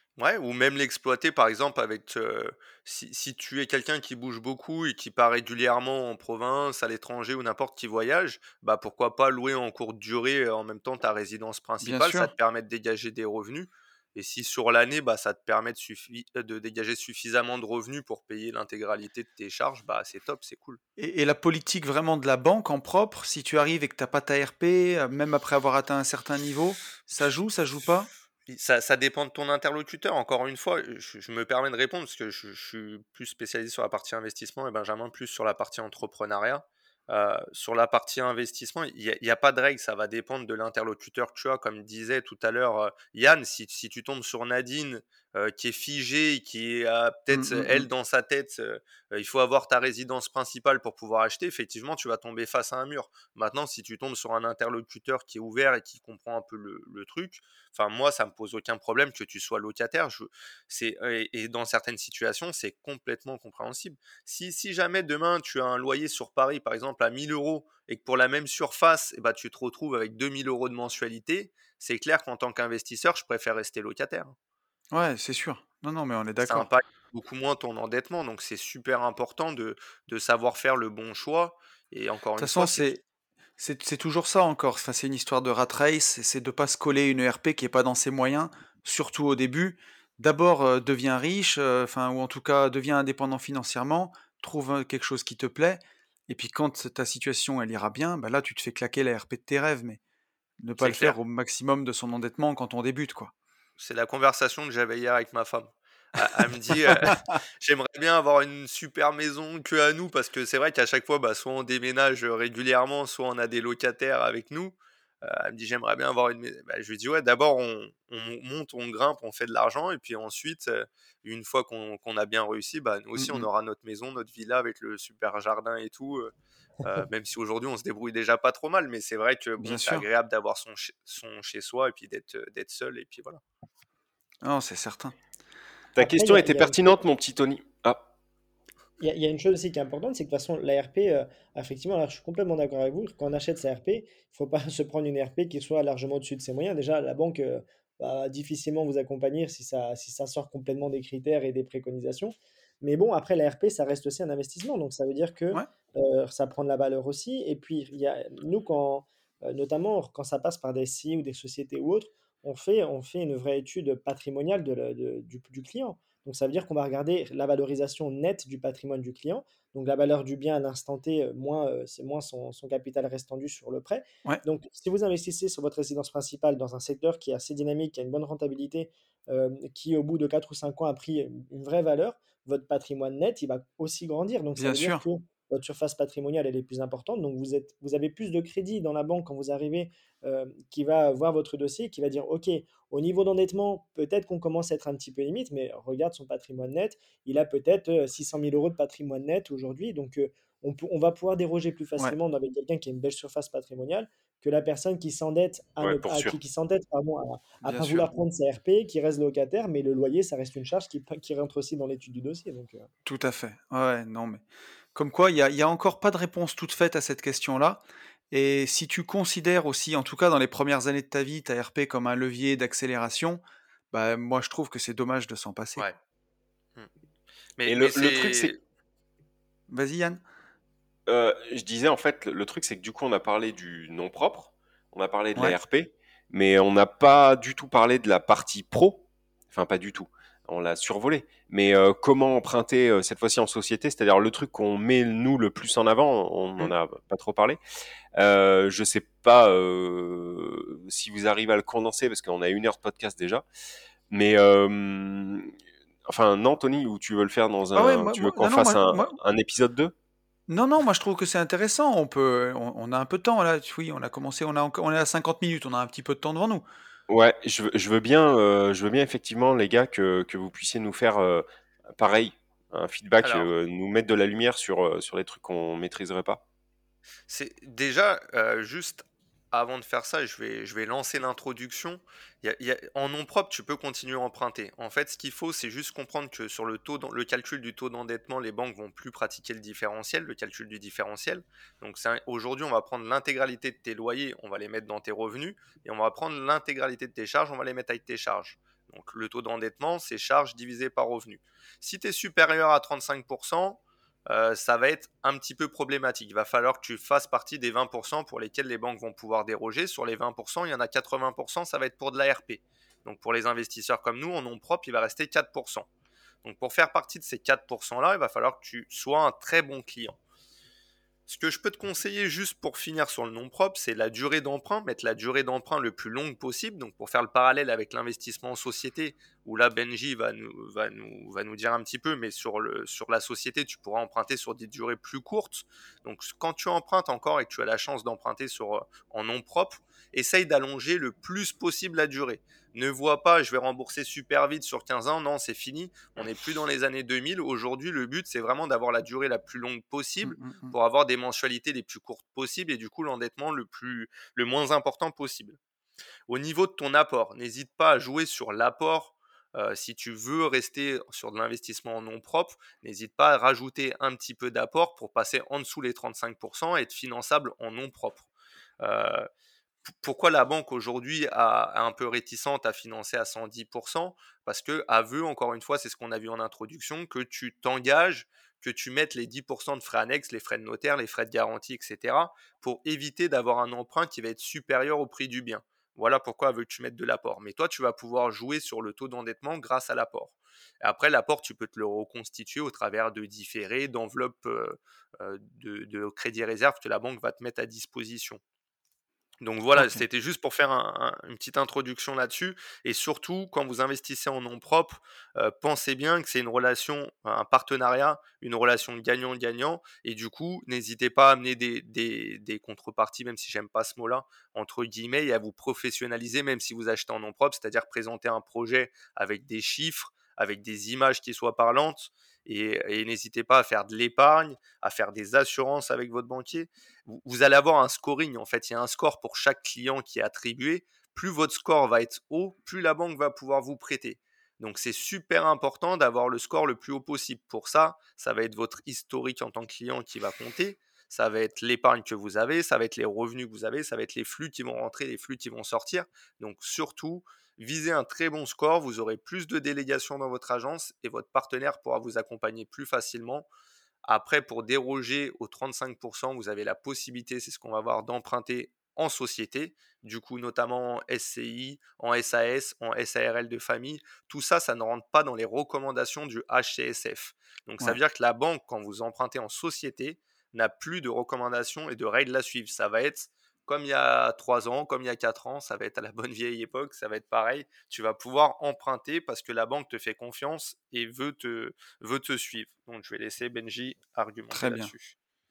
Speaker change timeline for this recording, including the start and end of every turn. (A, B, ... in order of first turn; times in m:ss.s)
0:00.2-0:20.8 A
0:11.8-0:12.3 B
0:21.0-0:28.1 B
0:28.5-1:14.3 A
0:47.3-0:47.9 B
1:14.9-1:16.7 B
1:16.4-1:22.9 A
1:22.4-1:23.0 B
1:23.6-1:40.0 B
1:40.6-1:43.3 B
1:40.8-1:41.2 A
1:43.8-2:06.3 A
1:46.2-1:47.3 B
2:03.2-2:03.5 B
2:06.8-2:13.4 A
2:09.6-2:10.0 B
2:14.4-2:15.2 B
2:15.9-2:18.0 C
2:16.0-2:17.0 D
2:19.0-3:32.9 D
3:04.6-3:05.0 B
3:25.8-3:26.4 C
3:27.6-3:28.1 B
3:33.0-3:34.4 B
3:34.9-3:43.4 B
3:43.9-3:45.8 B
3:47.6-3:48.5 A
3:47.6-3:48.5 C
3:49.7-3:50.2 B
3:51.1-4:07.6 C
4:08.2-4:13.4 C
4:14.1-4:15.5 C
4:16.1-4:19.9 C
4:17.7-4:19.2 B
4:20.5-4:26.6 B
4:27.1-4:36.4 C
4:33.2-4:33.5 A
4:37.3-5:15.9 A
5:16.4-5:20.2 A
5:21.3-5:55.6 A
5:50.2-5:50.8 B
5:56.3-6:08.3 A
6:08.8-6:09.3 A
6:10.0-6:38.4 A
6:39.4-7:33.5 A
6:39.7-6:40.0 B
7:34.0-8:05.1 A
8:04.5-8:04.9 B